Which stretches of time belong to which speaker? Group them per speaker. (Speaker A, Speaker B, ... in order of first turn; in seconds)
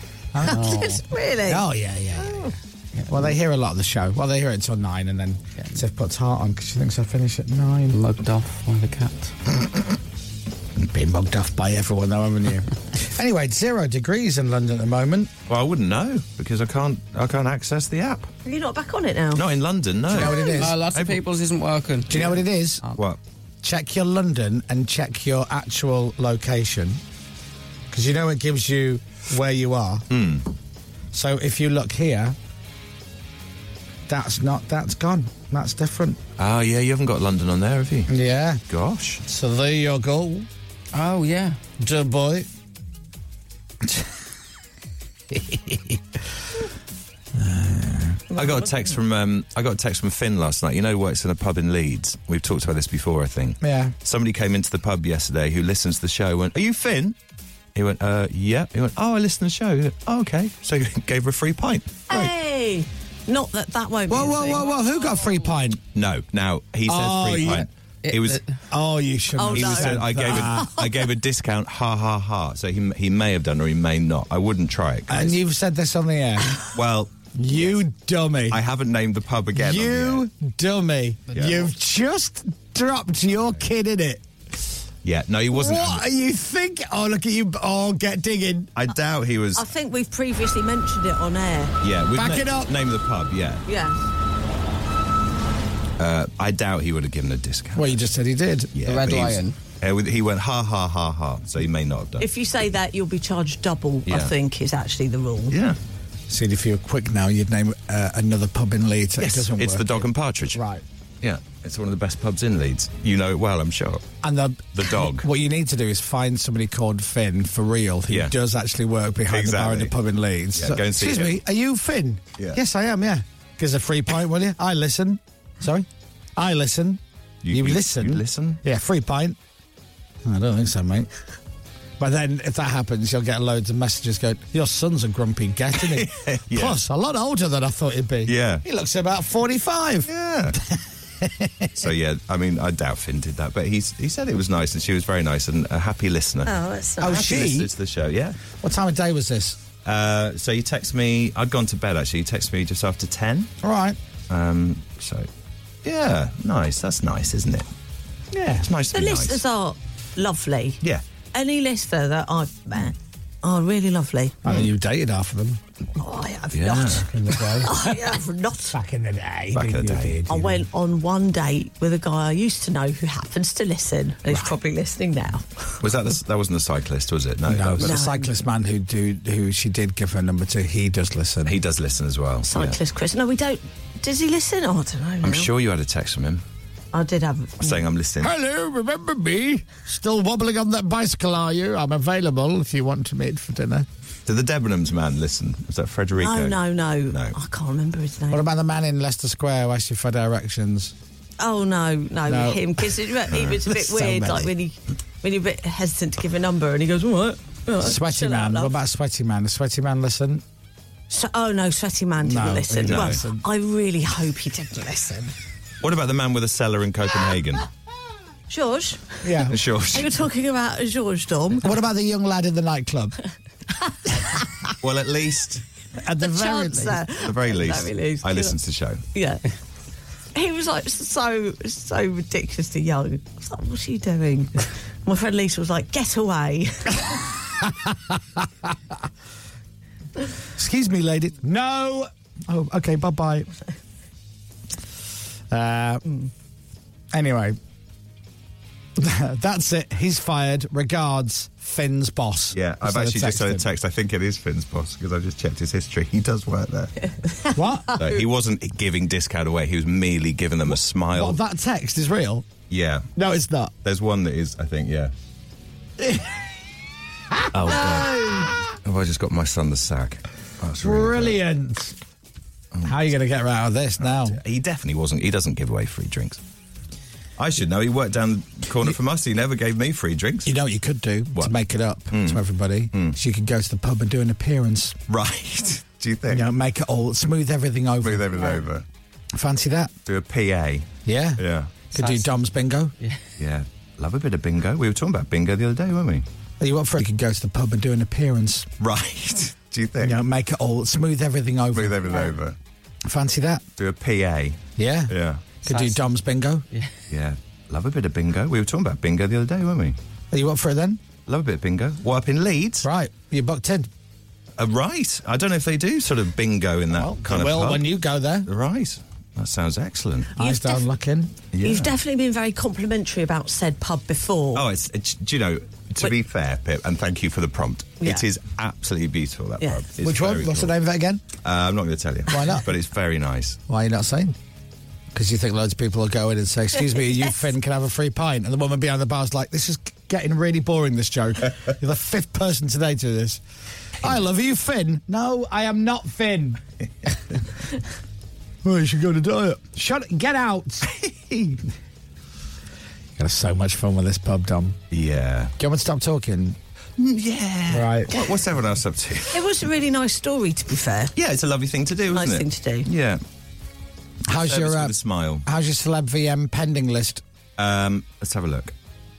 Speaker A: 0.3-0.7, 1.5-2.5, 3.1-8.0, 10.8-15.3, 20.1-20.8, 22.1-22.8, 23.6-27.0, 27.9-30.1, 31.1-32.4, 34.1-36.2, 38.1-38.6, 39.2-40.5, 41.8-42.5, 45.3-46.0, 47.3-48.2, 53.6-53.9, 64.1-65.8, 66.8-67.7, 68.7-70.7, 75.1-76.7, 77.3-78.6, 79.5-84.2, 85.5-88.7, 92.1-92.7, 97.7-98.7, 106.3-110.8, 114.2-127.0, 127.5-129.4, 130.2-131.1, 132.0-141.7, 147.0-147.7, 148.6-149.6, 153.6-154.0, 158.3-158.7, 164.4-165.6, 166.9-167.9, 168.7-170.6, 177.4-181.6, 188.2-193.9, 198.3-200.9, 202.3-202.8, 203.7-204.5, 207.8-210.4, 212.2-213.4, 219.2-219.6, 221.6-223.2, 226.0-227.0, 237.6-238.7, 240.6-243.5, 245.5-246.0, 247.1-247.6, 249.0-253.6, 257.5-257.9, 261.1-262.4, 263.1-263.7, 266.0-266.4, 267.3-268.7, 270.8-271.9, 272.8-274.4, 280.4-285.0, 286.3-288.3, 289.3-289.9, 291.0-292.9, 296.6-298.7, 300.0-302.1, 303.0-303.6, 304.8-306.6, 310.3-311.0, 312.8-313.9, 316.9-318.5, 320.4-321.3, 330.0-331.2, 332.3-332.6, 333.7-334.4, 335.1-343.4, 344.0-346.6, 348.6-350.9, 353.2-354.8, 355.6-356.6, 357.7-358.1, 364.3-367.2
Speaker B: 0.4-1.1, 7.9-9.3, 20.1-23.0, 40.9-41.6, 64.2-64.6, 68.0-68.5, 98.8-99.5, 291.9-292.4, 305.7-306.1
Speaker C: 0.4-1.6, 18.4-19.4, 48.3-48.9, 62.1-64.7, 69.4-71.1, 89.5-91.7, 93.7-94.1, 102.2-105.5, 146.4-147.4, 158.9-160.8, 161.3-164.4, 166.0-168.8, 170.3-175.8, 177.8-178.3, 182.4-185.5, 186.9-187.8, 196.2-198.5, 201.4-208.7, 211.1-215.3, 218.5-221.8, 226.2-228.6, 229.1-229.4, 230.3-237.2, 257.3-258.2, 320.4-320.8, 321.6-324.6, 359.3-361.1, 362.1-362.9
Speaker D: 15.5-18.3, 19.3-21.2, 22.9-23.2, 30.1-30.4, 36.4-38.1, 38.7-39.2, 48.3-57.2, 57.7-62.3, 65.9-68.4, 69.5-75.4, 76.7-77.8, 78.5-80.2, 81.3-81.7, 85.0-86.0, 88.7-89.6, 91.8-93.6, 96.0-98.0, 98.7-102.3, 104.0-104.3, 105.5-105.8, 109.2-110.6, 111.2-114.0, 114.7-115.3, 118.1-118.3, 119.3-119.9, 120.5-121.4, 127.4-128.6, 135.8-136.8, 138.2-138.6, 140.1-140.6, 141.8-148.4, 149.8-153.5, 154.3-155.3, 155.8-157.7, 158.6-159.4, 166.5-167.1, 169.5-170.2, 175.8-177.9, 181.4-182.8, 185.2-186.4, 187.6-188.3, 194.2-197.3, 203.3-203.6, 212.8-213.2, 215.8-217.6, 219.5-220.1, 224.8-225.6, 227.2-229.0, 252.5-256.9, 257.9-261.4, 262.7-263.1, 263.8-265.1, 267.5-271.4, 272.7-273.1, 274.0-276.4, 277.4-280.5, 282.1-283.2, 285.1-286.5, 288.0-288.8, 290.1-291.7, 293.4-296.2, 298.8-300.2, 301.7-302.6, 303.8-305.4, 307.1-310.0, 311.3-312.9, 314.6-317.9, 318.4-320.3, 321.5-321.9, 324.5-330.7, 331.4-333.6, 351.0-351.5, 354.9-355.5, 357.0-359.4, 361.1-363.2, 364.3-365.4, 367.6-368.7